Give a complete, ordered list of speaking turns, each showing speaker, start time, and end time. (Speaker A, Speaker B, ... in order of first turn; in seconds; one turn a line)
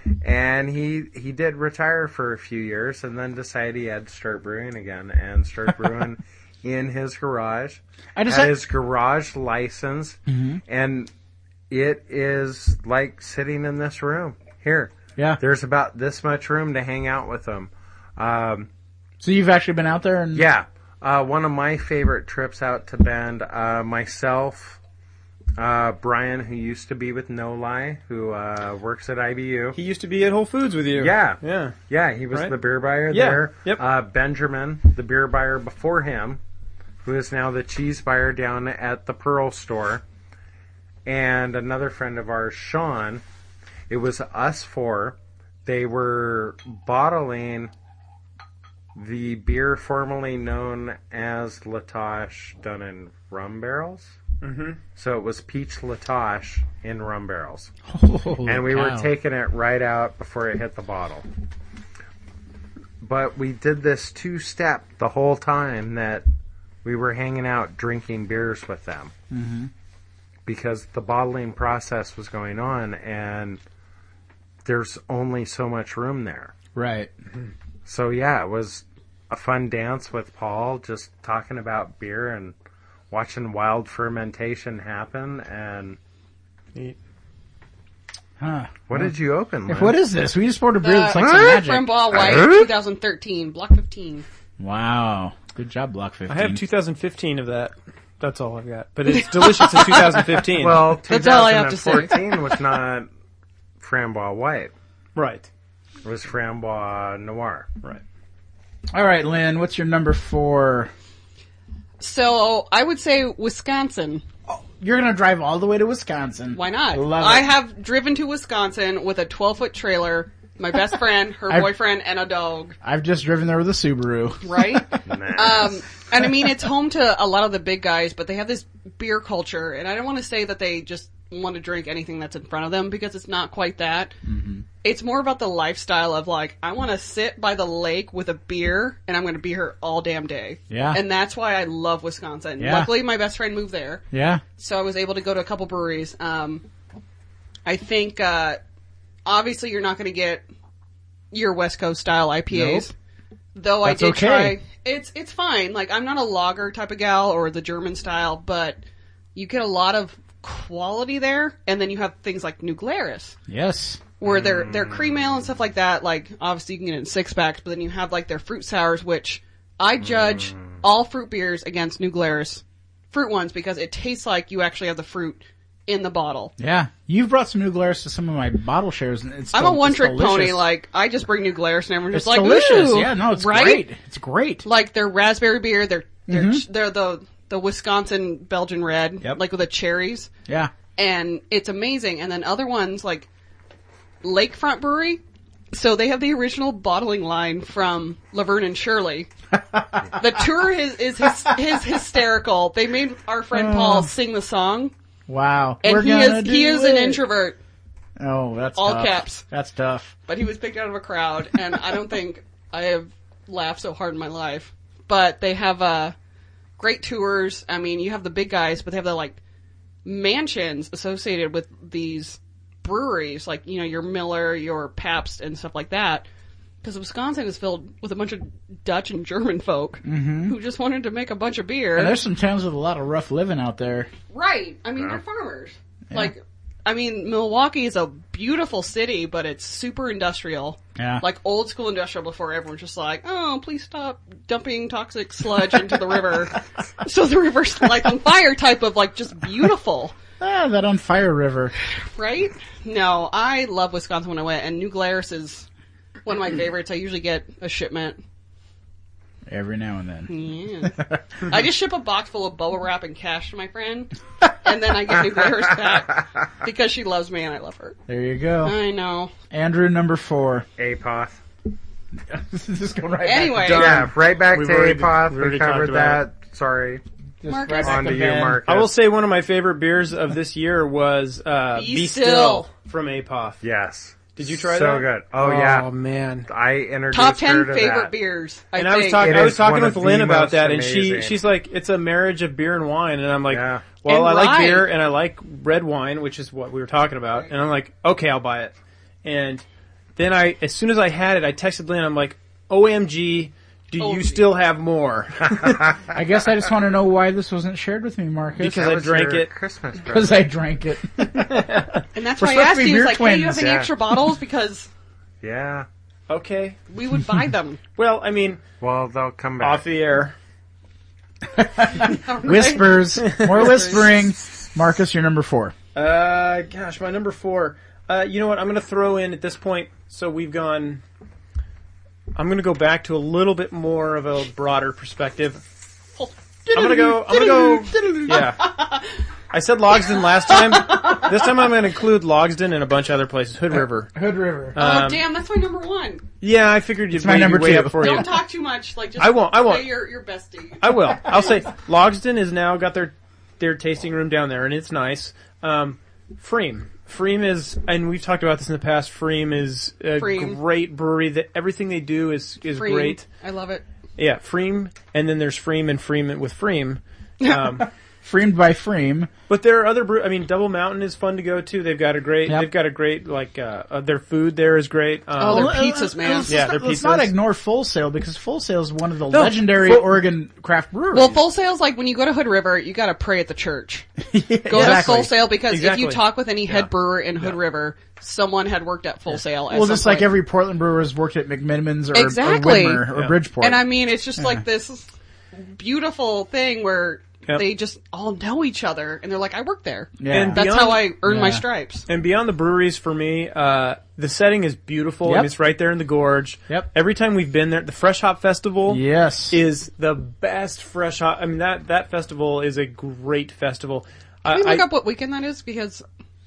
Speaker A: 0.2-11.1
Speaker B: 8.2-8.5
Speaker B: 10.3-10.6
Speaker A: 11.7-18.7
Speaker B: 19.2-20.5
Speaker A: 20.3-24.8
Speaker A: 25.6-29.8
Speaker C: 29.7-31.8
Speaker A: 30.9-36.4
Speaker C: 33.1-33.8
Speaker A: 37.0-40.0
Speaker A: 41.0-43.2
Speaker A: 43.9-47.7
Speaker A: 48.9-54.1
Speaker C: 54.4-54.8
Speaker A: 55.0-57.7
Speaker B: 57.9-59.1
Speaker A: 58.5-61.2
Speaker A: 63.0-66.2
Speaker A: 66.8-69.1
Speaker B: 69.3-69.7
Speaker A: 70.5-73.6
Speaker A: 74.6-76.5
Speaker B: 76.7-77.1
Speaker A: 77.8-82.5
Speaker A: 83.1-86.0
Speaker B: 88.4-89.1
Speaker A: 88.9-90.0
Speaker B: 89.7-92.0
Speaker D: 90.8-94.2
Speaker A: 91.1-91.5
Speaker A: 92.1-92.7
Speaker B: 94.6-96.6
Speaker C: 96.3-100.8
Speaker D: 99.1-100.2
Speaker A: 100.5-103.1
Speaker D: 101.0-102.6
Speaker A: 103.8-104.7
Speaker C: 105.1-105.5
Speaker A: 106.0-107.7
Speaker B: 108.9-110.9
Speaker D: 112.0-114.2
Speaker B: 114.5-117.5
Speaker D: 116.5-122.8
Speaker B: 122.8-125.0
Speaker D: 124.4-134.1
Speaker A: 125.0-125.8
Speaker B: 134.2-134.6
Speaker D: 134.8-144.0
Speaker B: 140.7-141.0
Speaker B: 142.6-142.9
Speaker B: 144.1-144.4
Speaker D: 144.6-146.6
Speaker D: 147.6-148.6
Speaker D: 149.2-150.4
Speaker D: 151.3-152.9
Speaker B: 152.5-152.9
Speaker D: 153.5-158.8
Speaker B: 153.8-154.6
Speaker D: 159.3-163.4
Speaker B: 163.5-164.0
Speaker D: 164.2-176.5
Speaker A: 164.2-165.4
Speaker A: 170.0-170.8
Speaker B: 176.6-180.6
Speaker D: 179.5-183.8
Speaker B: 182.1-184.7
Speaker D: 184.6-190.3
Speaker B: 186.3-186.6
Speaker D: 190.9-193.3
Speaker D: 194.2-195.2
Speaker D: 195.7-199.3
Speaker B: 199.5-200.4
Speaker D: 200.2-204.9
Speaker B: 201.3-201.5
Speaker B: 203.5-204.1
Speaker B: 205.3-207.2
Speaker D: 205.8-207.6
Speaker B: 208.2-210.1
Speaker D: 208.8-209.4
Speaker D: 210.3-216.1
Speaker D: 216.8-219.4
Speaker D: 220.0-226.2
Speaker D: 226.8-232.2
Speaker B: 230.0-230.6
Speaker B: 231.9-234.1
Speaker D: 234.3-250.2
Speaker B: 241.0-241.2
Speaker B: 250.4-251.7
Speaker D: 251.8-255.7
Speaker D: 256.2-258.2
Speaker B: 259.5-261.2
Speaker D: 260.3-268.0
Speaker B: 268.1-268.8
Speaker D: 268.6-269.3
Speaker B: 269.5-270.7
Speaker A: 270.8-271.4
Speaker B: 272.3-273.8
Speaker D: 273.2-274.0
Speaker C: 273.6-276.2
Speaker A: 273.7-277.0
Speaker B: 277.4-278.6
Speaker D: 277.5-278.1
Speaker A: 277.8-278.9
Speaker C: 278.7-283.6
Speaker D: 281.7-282.7
Speaker A: 283.6-285.9
Speaker C: 284.4-286.5
Speaker A: 286.5-288.1
Speaker D: 287.1-289.4
Speaker C: 288.8-299.6
Speaker A: 289.1-291.4
Speaker A: 293.5-293.9
Speaker D: 294.1-294.9
Speaker C: 300.1-305.8
Speaker D: 304.0-304.4
Speaker A: 305.5-306.0
Speaker B: 306.1-308.8
Speaker C: 308.6-309.5
Speaker A: 308.6-310.4
Speaker B: 310.1-311.7
Speaker C: 311.3-312.0
Speaker D: 312.1-314.9
Speaker B: 312.3-313.7
Speaker A: 313.5-313.9
Speaker A: 315.4-315.9
Speaker C: 316.3-316.8
Speaker D: 316.9-317.8
Speaker C: 317.9-318.6
Speaker A: 318.8-319.9
Speaker C: 319.6-320.3
Speaker B: 321.6-325.7
Speaker D: 321.8-324.2
Speaker C: 323.2-323.7
Speaker C: 325.9-331.0
Speaker C: 332.3-335.6
Speaker D: 336.2-339.1
Speaker C: 336.7-338.7
Speaker C: 339.5-344.1
Speaker D: 340.0-341.5
Speaker B: 344.1-344.8
Speaker C: 344.7-345.2
Speaker D: 344.8-346.3
Speaker C: 346.4-348.4
Speaker B: 347.1-348.3
Speaker D: 347.9-351.3
Speaker C: 349.2-349.9
Speaker C: 350.8-363.2
Speaker D: 360.2-360.6
Speaker D: 362.7-363.8
Speaker C: 364.2-367.9
Speaker B: 368.2-369.3
Speaker C: 369.5-375.8
Speaker D: 375.4-376.6
Speaker B: 375.4-381.4
Speaker C: 376.4-377.3
Speaker C: 379.3-380.2
Speaker D: 381.1-384.1
Speaker B: 384.3-385.3
Speaker D: 384.6-390.4
Speaker C: 384.7-387.6
Speaker B: 389.7-394.6
Speaker D: 392.1-402.1
Speaker B: 400.2-400.6
Speaker C: 400.3-401.1
Speaker B: 401.2-401.6
Speaker C: 402.1-414.9
Speaker B: 405.2-405.5
Speaker B: 408.9-409.6
Speaker D: 414.4-416.0